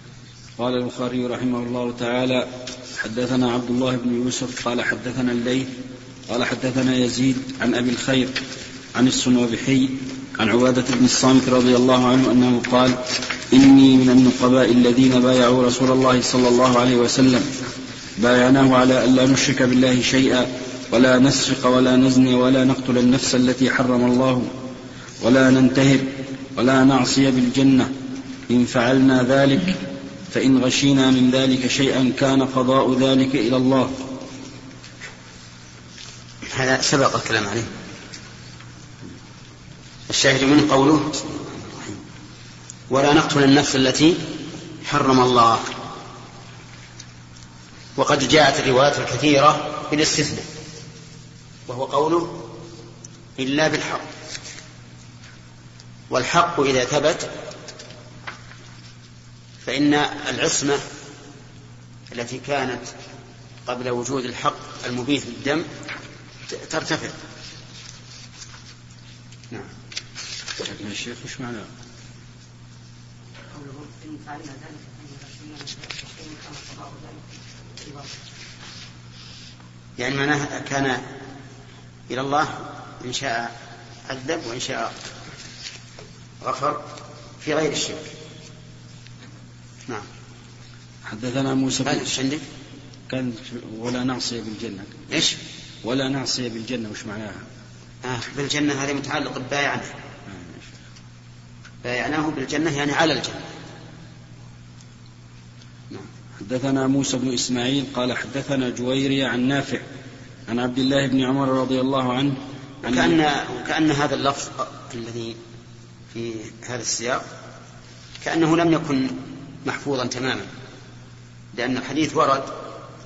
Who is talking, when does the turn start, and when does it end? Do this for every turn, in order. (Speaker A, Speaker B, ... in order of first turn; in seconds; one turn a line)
Speaker A: 0.6-5.7
Speaker A: 6.3-8.4
Speaker A: 8.9-17.5
Speaker A: 18.2-24.5
Speaker A: 25.2-27.9
Speaker A: 28.5-29.8
Speaker A: 30.3-33.9
Speaker B: 36.5-37.7
Speaker B: 40.1-42.0
Speaker B: 42.9-45.7
Speaker B: 48.0-50.5
Speaker B: 51.7-52.5
Speaker B: 53.4-54.1
Speaker B: 56.1-57.3
Speaker B: 59.6-60.8
Speaker B: 62.1-62.9
Speaker B: 63.6-65.7
Speaker B: 66.5-67.2
Speaker A: 70.6-71.7
Speaker C: 73.5-77.2
Speaker C: 77.8-78.1
Speaker B: 80.0-81.0
Speaker B: 82.1-83.5
Speaker B: 84.1-85.0
Speaker B: 86.4-86.9
Speaker B: 87.4-88.1
Speaker A: 91.1-92.1
Speaker B: 91.8-92.4
Speaker A: 93.1-94.9
Speaker B: 95.1-95.4
Speaker A: 95.8-97.4
Speaker B: 98.0-99.9
Speaker A: 100.3-100.7
Speaker B: 101.8-103.4
Speaker A: 106.4-109.8
Speaker A: 110.5-113.1
Speaker B: 112.8-115.4
Speaker B: 116.1-117.2
Speaker B: 118.2-120.5
Speaker B: 121.5-122.5